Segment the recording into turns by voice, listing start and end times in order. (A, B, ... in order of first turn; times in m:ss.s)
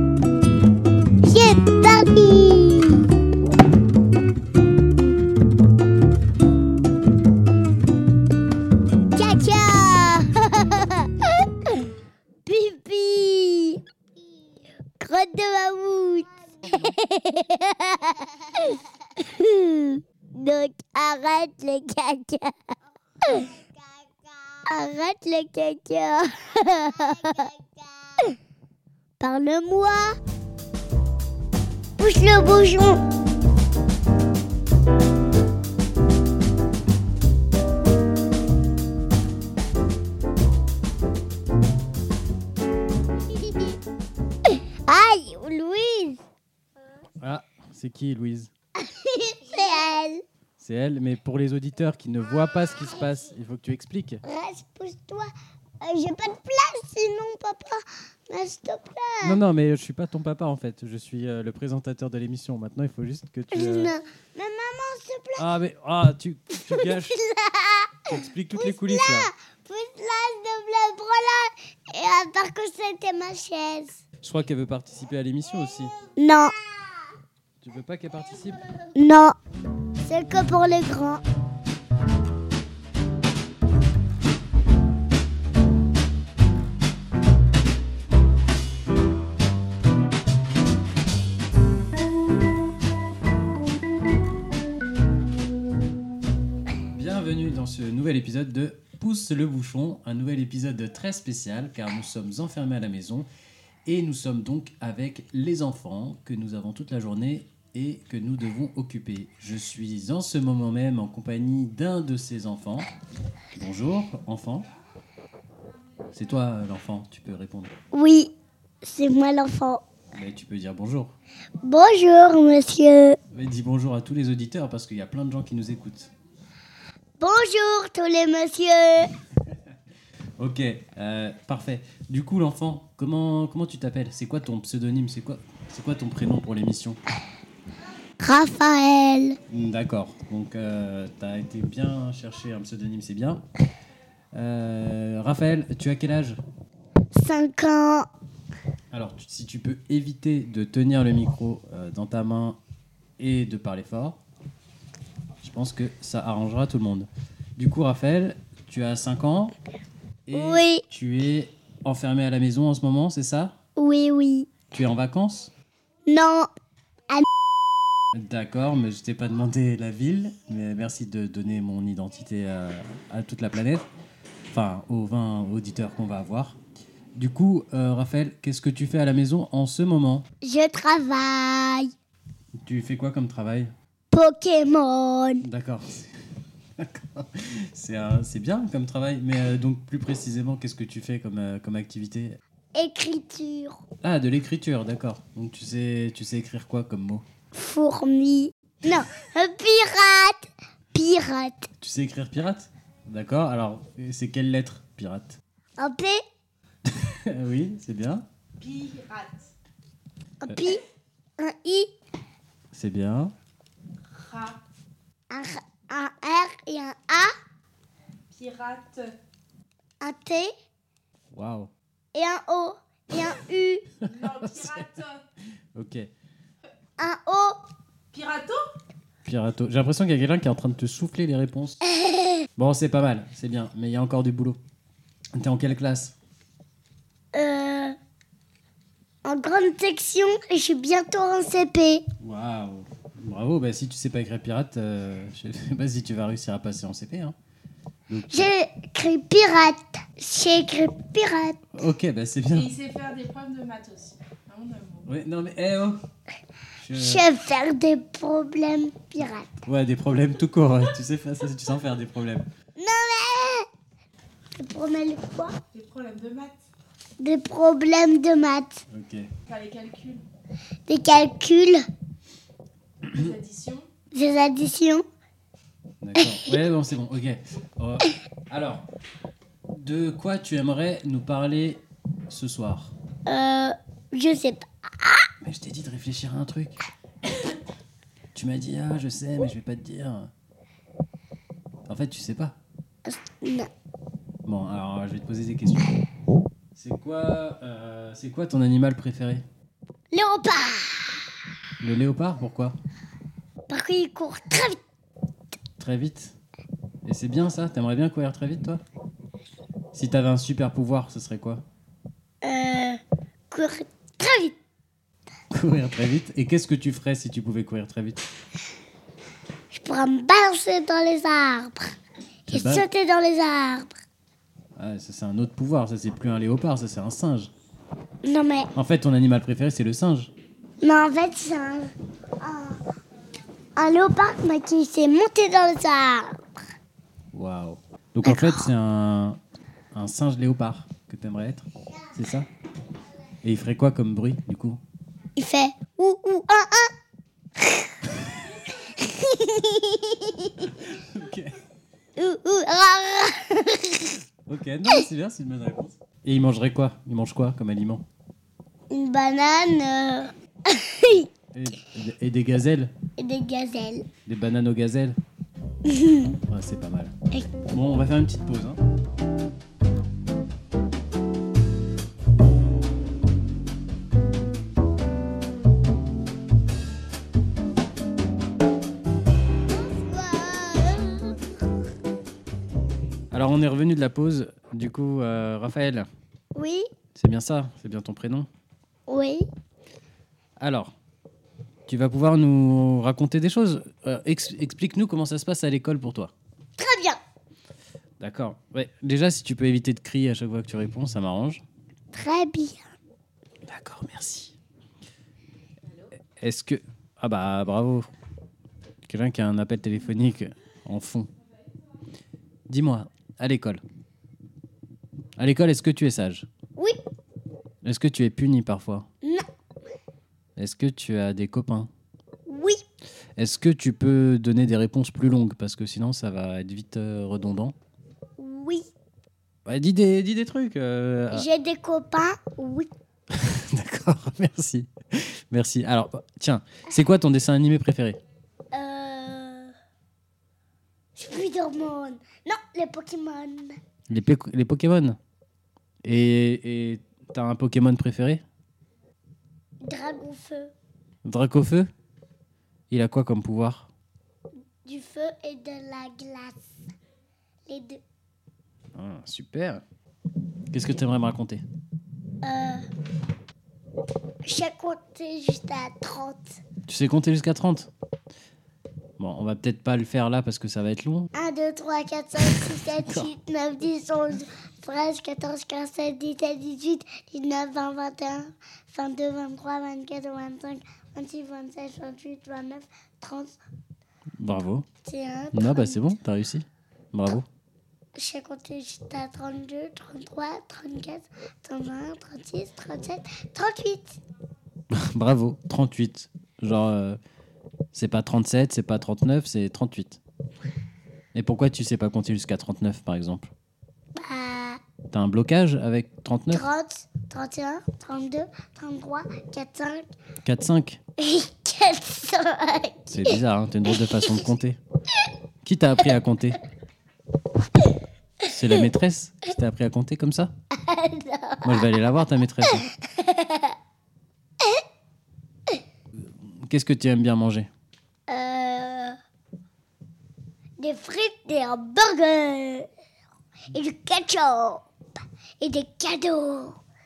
0:01.2-0:03.1 A
0:09.2-0:11.8 A
0:12.5-0:13.8 A
0:15.0-0:22.6 A
0:23.2-0:23.5 A
0:24.7-0:27.5 A
0:29.2-0:30.2 A
0:32.0-0:33.0 A
0:43.4-0:43.7 A
0:44.5-0:46.2 A
0:47.2-0:48.5 B
0:48.8-0:50.2 A
0:50.6-0:54.2 B
0:54.2-0:55.3 A
0:55.8-0:59.4 A
0:59.2-1:03.9 B
1:03.5-1:05.4 A
1:05.4-1:07.2 B
1:06.7-1:14.0 A
1:08.1-1:09.3 B
1:14.2-1:15.9 B
1:16.2-1:16.6 A
1:17.6-1:18.7 B
1:19.0-1:19.4 A
1:20.0-1:21.2 A
1:37.0-1:43.3 B
1:43.9-1:52.9 B
1:53.6-1:54.7 B
1:56.1-1:57.7 B
1:57.9-1:58.3 A
1:58.8-1:59.8 A
2:00.1-2:01.2 B
2:01.6-2:03.2 A
2:03.3-2:06.1 B
2:07.2-2:09.1 A
2:10.4-2:17.0 B
2:18.2-2:19.4 A
2:19.5-2:23.4 B
2:24.3-2:26.4 B
2:27.1-2:28.1 A
2:28.9-2:32.6 B
2:33.2-2:34.2 B
2:35.4-2:39.6 B
2:40.3-2:43.5 B
2:40.3-2:40.8 A
2:43.8-2:44.5 A
2:44.7-2:45.5 B
2:46.1-2:46.5 A
2:48.1-2:53.9 B
2:54.5-2:56.6 B
2:57.2-3:00.2 B
3:00.4-3:01.9 A
3:02.6-3:03.7 B
3:04.1-3:05.5 A
3:05.4-3:06.1 B
3:06.8-3:12.4 B
3:12.7-3:13.8 A
3:14.0-3:17.2 B
3:17.5-3:21.7 A
3:21.8-3:25.4 B
3:25.8-3:26.2 A
3:26.9-3:28.2 B
3:28.6-3:29.5 C
3:30.4-3:30.8 A
3:31.4-3:31.9 A
3:32.7-3:33.3 B
3:34.2-3:34.6 C
3:35.3-3:37.3 A
3:38.3-3:39.2 C
3:40.0-3:40.5 A
3:41.3-3:41.7 B
3:42.1-3:43.9 A
3:44.0-3:44.9 B
3:44.0-3:45.2 C
3:45.8-3:46.1 B
3:47.0-3:47.6 A
3:48.1-3:48.6 C
3:49.2-3:51.8 B
3:51.8-3:52.4 A
3:52.6-3:54.6 B
3:55.4-3:56.2 B
3:57.3-3:58.0 A
3:59.2-4:02.0 A
4:02.2-4:07.4 B
4:08.1-4:08.5 B
4:08.3-4:11.6 A
4:11.7-4:12.8 B
4:12.6-4:15.1 C
4:15.0-4:16.0 B
4:16.8-4:17.2 B
4:17.0-4:19.6 A
4:19.6-4:22.5 B
4:22.8-4:23.7 A
4:24.6-4:25.6 A
4:25.7-4:26.6 C
4:27.2-4:28.8 A
4:28.9-4:29.3 B
4:29.5-4:30.2 C
4:30.9-4:31.8 A
4:33.1-4:33.9 C
4:34.1-4:35.0 A
4:36.0-4:38.8 B
4:36.2-4:36.5 A
4:39.7-4:42.9 B
4:43.3-4:45.3 A
4:45.4-4:46.8 B
4:48.4-4:50.3 B
4:51.9-4:52.6 B
4:53.1-4:53.7 A
4:54.4-4:55.9 B
4:56.8-4:59.4 B
5:00.1-5:01.2 A
5:01.8-5:02.8 B
5:03.7-5:04.8 A
5:05.8-5:06.4 B
5:07.0-5:08.8 B
5:09.9-5:11.6 B
5:12.4-5:14.6 A
5:15.5-5:18.2 B
5:19.7-5:22.0 A
5:22.5-5:22.9 B
5:22.5-5:24.0 A
5:24.8-5:27.5 B
5:28.2-5:28.7 A
5:28.8-5:30.3 B
5:30.8-5:32.8 A
5:33.8-5:36.4 A
5:37.3-5:39.4 B
5:38.2-5:38.7 A
5:39.9-5:42.5 B
5:43.4-5:44.8 B
5:45.4-5:46.9 A
5:47.6-5:48.1 A
5:48.8-5:50.7 A
5:50.6-5:51.6 B
5:52.2-5:54.2 A
5:54.5-5:58.0 B
5:58.9-6:01.3 A
6:01.5-6:02.9 B
6:03.2-6:04.0 A
6:04.3-6:05.2 B
6:05.9-6:06.4 A
6:06.5-6:07.1 B
6:07.7-6:08.8 B
6:19.7-6:21.4 A
6:23.3-6:26.1 B
6:26.6-6:26.8 A
6:27.2-6:28.5 B
6:29.1-6:29.5 A
6:30.6-6:30.9 B
6:31.9-6:36.3 B
6:36.8-6:37.2 A
6:38.2-6:41.6 B
6:42.1-6:42.8 A
6:43.7-6:44.6 B
6:46.4-6:48.1 B
6:49.1-6:51.3 B
6:52.7-6:53.8 B
6:55.4-6:56.5 B
6:57.8-6:59.1 B
7:00.6-7:01.9 B
7:02.5-7:02.8 A
7:03.4-7:07.8 B
7:08.4-7:08.9 A
7:09.7-7:11.5 B
7:11.3-7:12.9 A
7:13.3-7:18.2 B
7:18.7-7:19.7 A
7:21.2-7:23.8 A
7:24.1-7:25.2 B
7:26.0-7:28.4 B
7:29.8-7:30.7 A
7:31.2-7:31.9 B
7:32.9-7:33.9 B
7:34.8-7:36.6 A
7:37.7-7:38.0 A
7:39.0-7:39.8 B
7:40.7-7:41.6 B
7:42.4-7:42.8 A
7:44.4-7:46.6 A
7:46.9-7:47.9 B
7:49.2-7:51.3 B
7:51.4-8:03.6 A
7:52.4-7:53.3 B
8:04.4-8:04.9 B
8:05.0-8:06.1 A
8:05.5-8:07.5 B
8:08.2-8:14.2 A
8:14.9-8:17.2 B
8:17.9-8:20.2 B
8:21.3-8:23.5 B
8:24.2-8:24.8 A
8:25.1-8:26.6 B
8:26.5-8:30.0 A
8:30.4-8:31.0 B
8:31.2-8:33.4 A
8:33.1-8:34.8 B
8:33.9-8:34.3 A
8:35.6-8:36.6 B
8:38.4-8:40.5 B
8:40.8-8:41.9 A
8:41.6-8:42.9 B
8:42.6-8:43.8 A
8:46.2-8:47.7 B
8:48.3-8:49.2 A
8:50.8-8:52.9 A
8:53.7-8:54.8 A
8:55.6-8:56.8 A